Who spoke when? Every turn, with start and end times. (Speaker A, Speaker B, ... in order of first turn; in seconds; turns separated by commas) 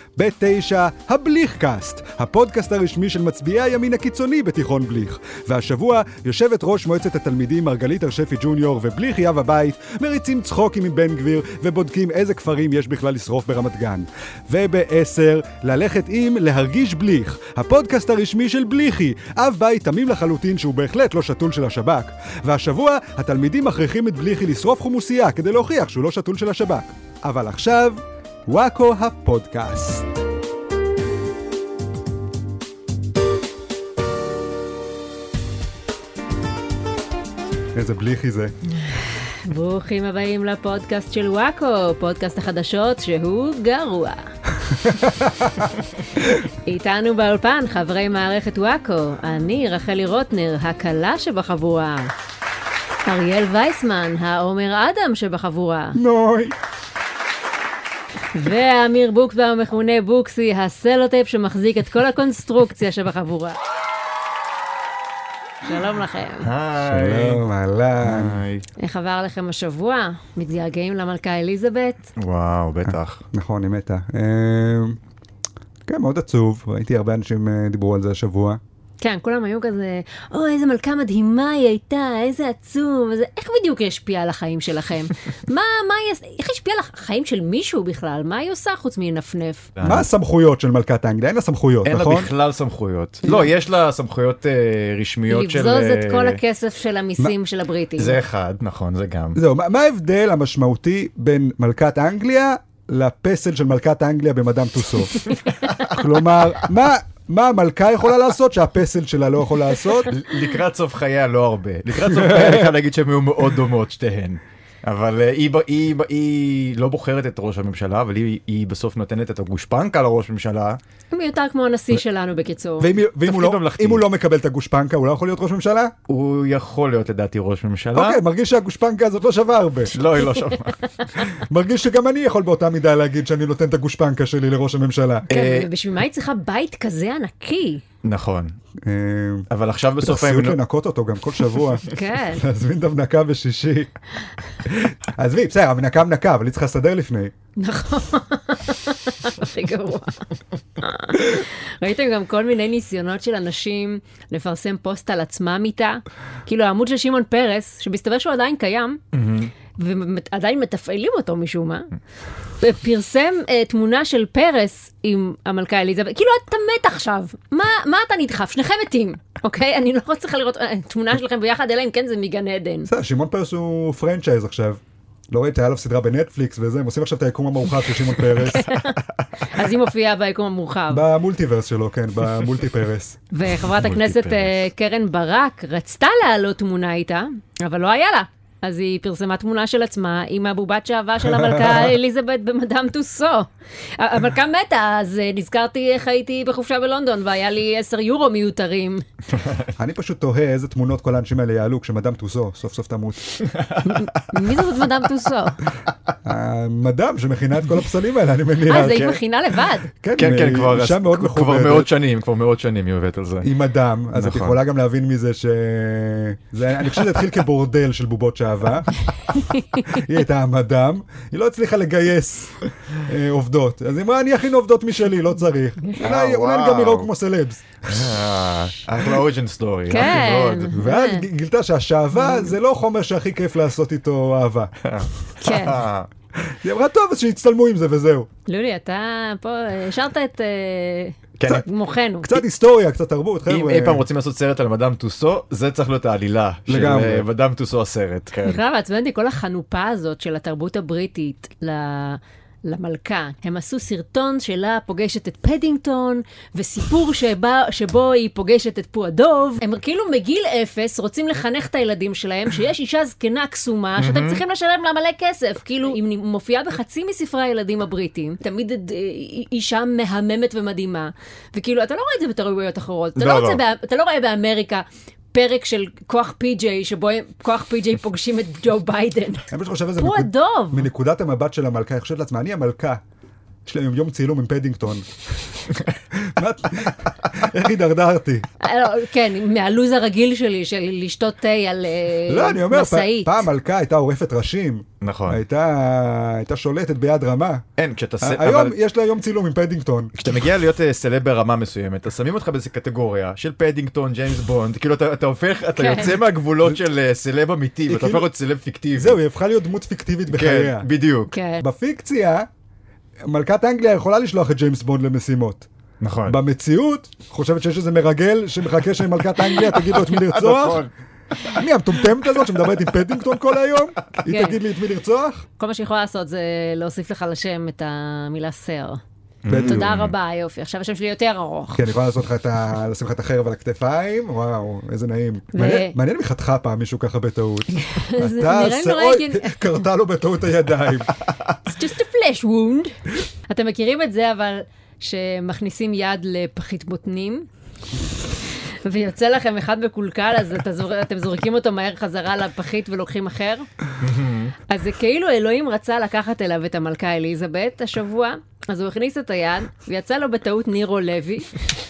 Speaker A: 0.2-30.1, Speaker A: 37.8-38.5, Speaker B: 38.8-44.3, Speaker A: 45.0-45.6, Speaker B: 46.6-52.1, Speaker B: 53.1-56.0, Speaker A: 56.0-56.5, Speaker B: 58.3-63.6, Speaker B: 65.6-66.5, Speaker C: 66.4-67.4, Speaker A: 66.8-68.4, Speaker C: 68.0-68.7, Speaker B: 68.8-72.1, Speaker C: 72.2-73.2, Speaker A: 73.3-75.0, Speaker A: 75.9-78.6, Speaker B: 79.0-89.7, Speaker C: 89.8-90.1, Speaker A: 89.8-92.3, Speaker C: 91.8-96.4, Speaker B: 93.2-93.5, Speaker B: 95.3-98.2, Speaker C: 98.0-99.4, Speaker A: 99.3-105.2, Speaker B: 105.3-105.8, Speaker C: 105.4-106.1, Speaker A: 105.9-110.1, Speaker C: 110.1-120.8, Speaker A: 112.1-112.7, Speaker B: 121.1-122.9, Speaker A: 122.8-125.9, Speaker C: 123.3-124.0, Speaker C: 126.1-128.2, Speaker A: 127.9-129.9, Speaker C: 129.9-130.8, Speaker A: 131.4-135.3, Speaker B: 135.3-137.8, Speaker C: 135.3-135.7, Speaker C: 138.0-138.6, Speaker A: 138.8-139.5, Speaker C: 139.5-140.6, Speaker A: 140.0-143.9, Speaker B: 141.9-142.4, Speaker A: 144.7-147.3, Speaker B: 147.6-150.2, Speaker B: 150.8-159.0, Speaker C: 159.1-159.5, Speaker B: 159.7-161.9, Speaker B: 162.6-172.9, Speaker A: 172.9-178.7, Speaker B: 178.4-181.0, Speaker A: 180.9-183.2, Speaker B: 183.3-199.0, Speaker C: 183.6-184.6, Speaker A: 191.3-191.8, Speaker C: 199.4-199.7, Speaker A: 199.8-203.3, Speaker C: 203.4-204.6, Speaker B: 203.8-205.6, Speaker A: 206.2-209.1, Speaker B: 208.7-209.9, Speaker C: 208.8-209.2, Speaker A: 210.0-211.9, Speaker C: 210.2-213.5, Speaker A: 213.4-219.0, Speaker C: 214.2-214.6, Speaker B: 219.3-219.8, Speaker A: 219.7-228.3, Speaker C: 226.0-227.1, Speaker C: 227.9-230.8, Speaker B: 229.9-231.3, Speaker A: 230.8-234.7, Speaker B: 232.2-232.5, Speaker C: 234.8-236.1, Speaker B: 235.4-235.8, Speaker A: 236.5-238.3, Speaker B: 238.5-242.4, Speaker C: 241.4-241.7, Speaker A: 242.2-244.1, Speaker C: 243.5-248.6, Speaker A: 246.7-247.3, Speaker B: 248.4-280.9, Speaker C: 264.0-264.4, Speaker C: 273.2-273.6, Speaker A: 279.5-283.0, Speaker A: 283.7-285.6, Speaker A: 286.1-288.4, Speaker B: 288.6-293.4, Speaker A: 292.3-297.6, Speaker C: 295.0-295.4, Speaker C: 297.8-298.8, Speaker A: 298.2-300.1, Speaker C: 300.2-309.2, Speaker B: 305.8-306.2, Speaker A: 307.9-308.3, Speaker A: 309.0-310.9, Speaker C: 310.3-311.3, Speaker B: 311.3-311.6, Speaker A: 311.6-312.5, Speaker A: 313.3-315.7, Speaker C: 316.0-316.4, Speaker A: 316.3-320.9, Speaker C: 319.6-320.9, Speaker A: 321.5-325.4, Speaker B: 324.3-324.6, Speaker B: 325.6-329.0, Speaker C: 329.4-330.1, Speaker A: 329.5-329.9, Speaker B: 329.5-331.8, Speaker A: 331.7-341.1, Speaker B: 335.5-335.9, Speaker B: 337.7-339.6, Speaker B: 341.7-347.5, Speaker B: 348.8-353.7, Speaker C: 354.0-354.5, Speaker B: 354.7-361.5